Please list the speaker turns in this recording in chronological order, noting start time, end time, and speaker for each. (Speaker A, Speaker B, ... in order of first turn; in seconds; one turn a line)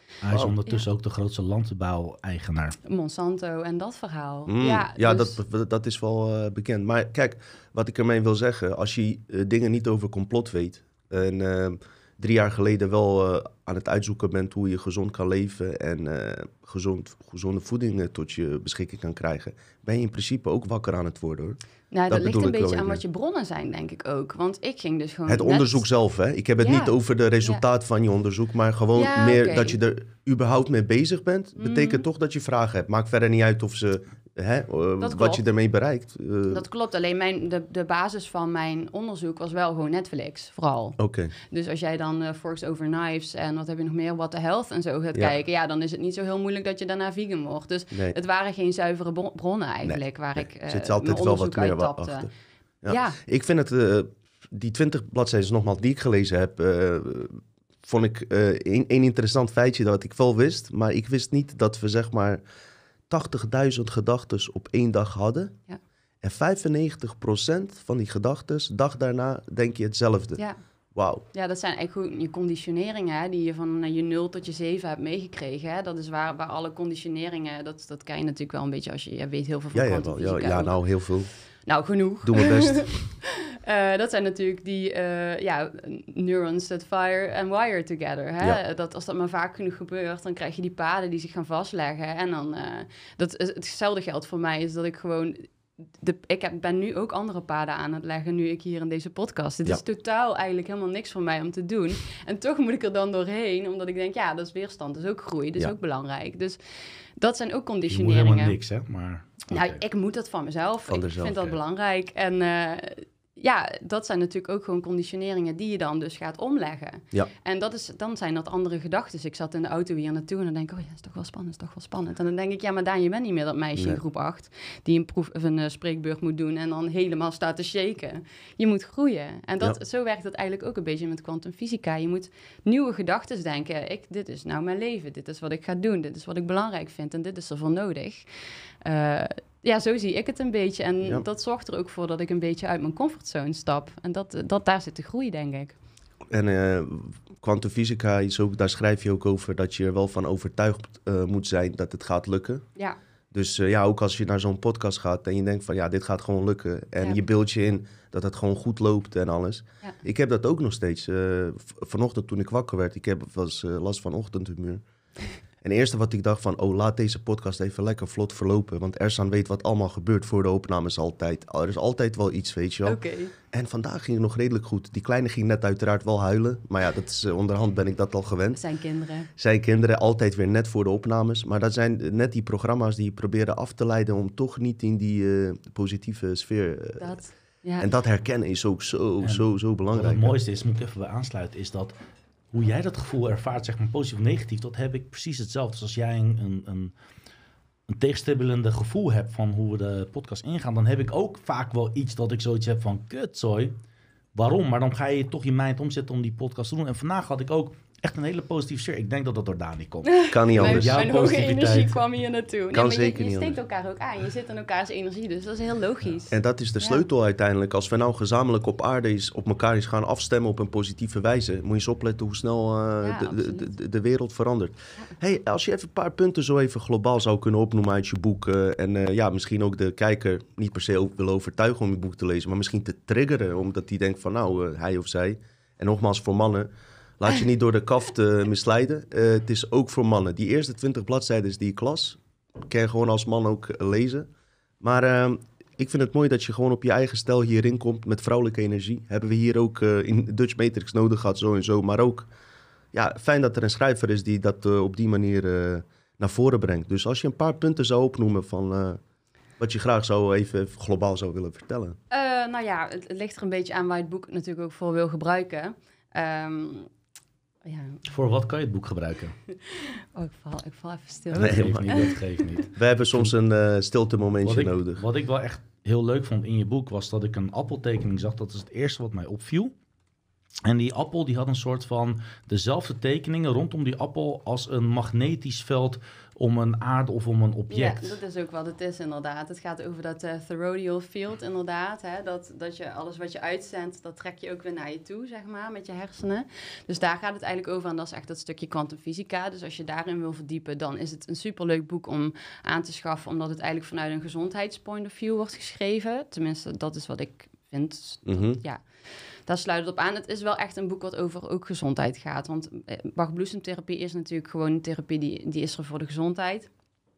Speaker A: 0.2-2.8
Speaker B: 2.8-5.4
Speaker C: 4.5-23.0
Speaker B: 21.9-25.8
Speaker C: 25.3-36.6
Speaker B: 26.6-27.6
Speaker B: 28.9-29.8
Speaker B: 31.6-32.0
Speaker B: 35.0-35.4
Speaker B: 36.5-52.3
Speaker C: 41.0-41.3
Speaker C: 49.8-52.3
Speaker C: 52.8-62.4
Speaker B: 52.9-53.2
Speaker C: 63.1-65.5
Speaker C: 66.2-70.4
Speaker C: 70.9-71.2
Speaker B: 71.3-80.8
Speaker C: 79.7-81.3
Speaker B: 81.7-106.6
Speaker C: 82.2-82.9
Speaker B: 107.2-108.5
Speaker A: 107.9-109.8
Speaker B: 109.5-138.3
Speaker C: 110.9-111.5
Speaker B: 138.8-145.8
Speaker C: 146.3-152.7
Speaker C: 153.3-164.8
Speaker C: 165.6-178.6
Speaker B: 172.8-173.3
Speaker B: 178.5-179.3
Speaker C: 179.4-187.1
Speaker B: 187.0-187.9
Speaker C: 187.8-190.3
Speaker A: 189.2-191.9
Speaker A: 192.5-196.9
Speaker A: 197.9-203.7
Speaker A: 204.3-212.0
Speaker B: 210.1-217.0
Speaker C: 210.3-211.1
Speaker C: 212.7-213.6
Speaker C: 216.3-244.3
Speaker B: 223.0-223.7
Speaker C: 244.8-252.3
Speaker C: 252.9-259.0
Speaker C: 259.6-262.0
Speaker B: 262.1-266.9
Speaker B: 267.6-268.0
Speaker A: 268.1-269.4
Speaker B: 269.7-272.2
Speaker A: 271.3-273.3
Speaker C: 271.4-272.1
Speaker C: 272.7-275.0
Speaker A: 274.4-279.7
Speaker A: 280.6-288.1
Speaker B: 287.7-308.8
Speaker C: 308.2-308.6
Speaker B: 309.4-316.7